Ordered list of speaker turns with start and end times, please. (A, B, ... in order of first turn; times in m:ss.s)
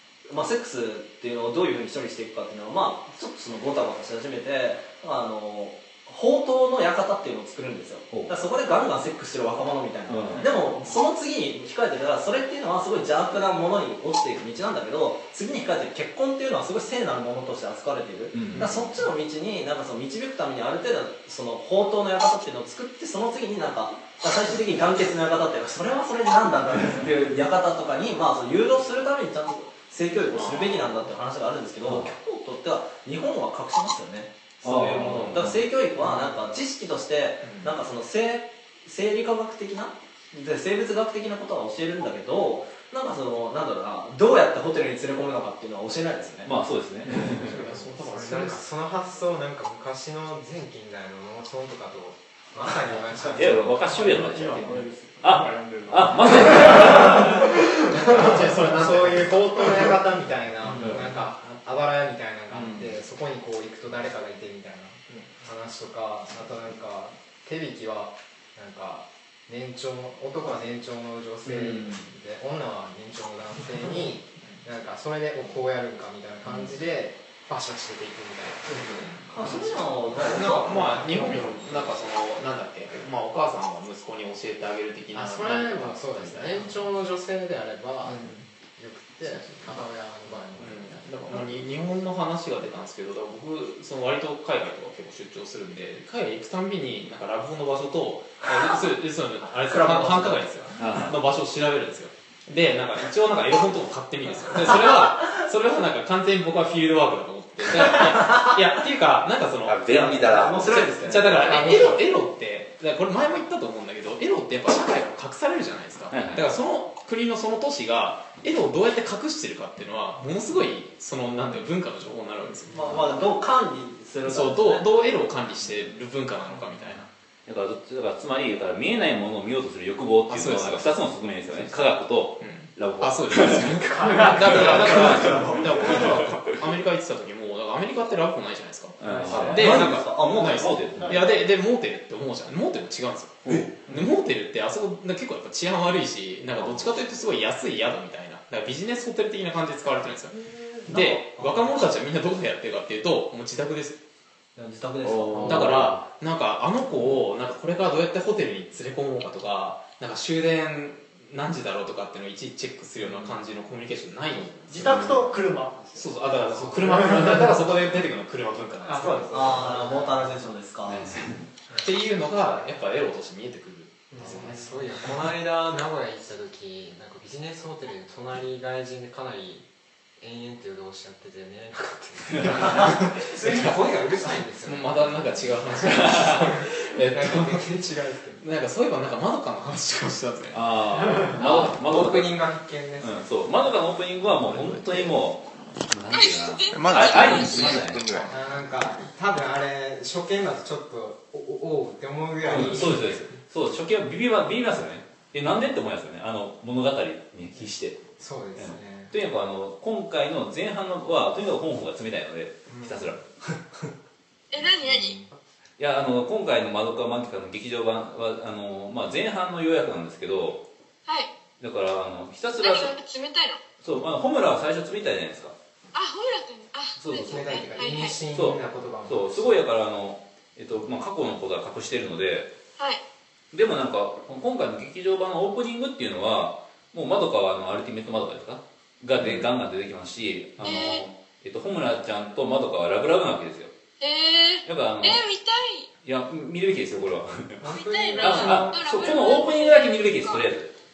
0:00.3-0:46.5 A
0:10.1-0:10.7 B
0:18.3-0:19.0 B
0:30.3-0:30.9 C
0:31.9-0:32.1 B
0:34.6-0:35.6 B
0:35.0-0:35.4 C
0:36.0-0:36.6 C
0:37.4-0:37.8 C
0:46.4-0:47.5 B
0:47.1-0:48.7 C
0:47.2-0:54.1 D
0:53.3-0:57.4 B
0:53.8-0:58.9 E
0:57.9-1:18.9 D
0:58.0-0:58.9 C
1:00.7-1:01.0 B
1:05.1-1:05.4 E
1:19.3-1:21.7 A
1:20.2-1:26.7 C
1:25.1-1:31.4 D
1:28.1-1:28.4 C
1:30.6-2:02.9 C
1:39.7-1:40.4 A
1:40.8-1:41.2 B
1:47.8-1:48.6 A
1:49.6-1:50.9 F
1:49.9-1:52.0 A
1:56.1-1:56.5 B
2:02.7-2:04.9 A
2:02.8-2:03.1 B
2:04.2-2:07.1 C
2:07.4-2:15.5 B
2:10.3-2:11.8 C
2:12.4-2:34.0 C
2:19.0-2:21.3 B
2:19.2-2:20.9 A
2:23.4-2:23.7 B
2:26.6-2:26.9 B
2:30.8-2:31.8 A
2:34.5-2:35.8 A
2:35.2-2:35.5 F
2:35.4-2:45.3 C
2:44.7-2:46.2 E
2:45.9-2:49.8 C
2:46.9-2:47.4 E
2:48.9-2:50.0 E
2:49.3-2:51.1 A
2:50.8-2:51.5 B
2:51.8-2:54.7 C
2:54.1-2:54.6 E
2:54.2-2:59.6 D
3:00.2-3:08.4 D
3:03.2-3:03.8 C
3:04.6-3:07.7 C
3:08.4-3:10.6 C
3:10.5-3:18.1 B
3:11.2-3:13.3 D
3:14.5-3:14.8 F
3:16.1-3:17.8 G
3:16.7-3:18.3 F
3:18.2-3:23.4 D
3:22.4-3:33.3 B
3:28.2-3:29.1 D
3:32.7-3:33.1 D
3:34.5-3:35.2 G
3:34.9-3:35.4 D
3:35.8-3:40.6 B
3:41.1-3:41.3 G
3:41.6-3:42.9 B
3:42.6-3:43.6 G
3:43.8-3:45.5 B
3:45.9-3:48.2 G
3:47.0-3:52.5 B
3:47.1-3:49.6 D
3:52.8-3:53.0 G
3:53.5-4:03.7 B
4:00.6-4:01.1 G
4:04.0-4:05.9 G
4:04.6-4:05.2 B
4:06.0-4:07.6 B
4:07.6-4:09.4 D
4:07.7-4:10.5 G
4:08.2-4:10.7 B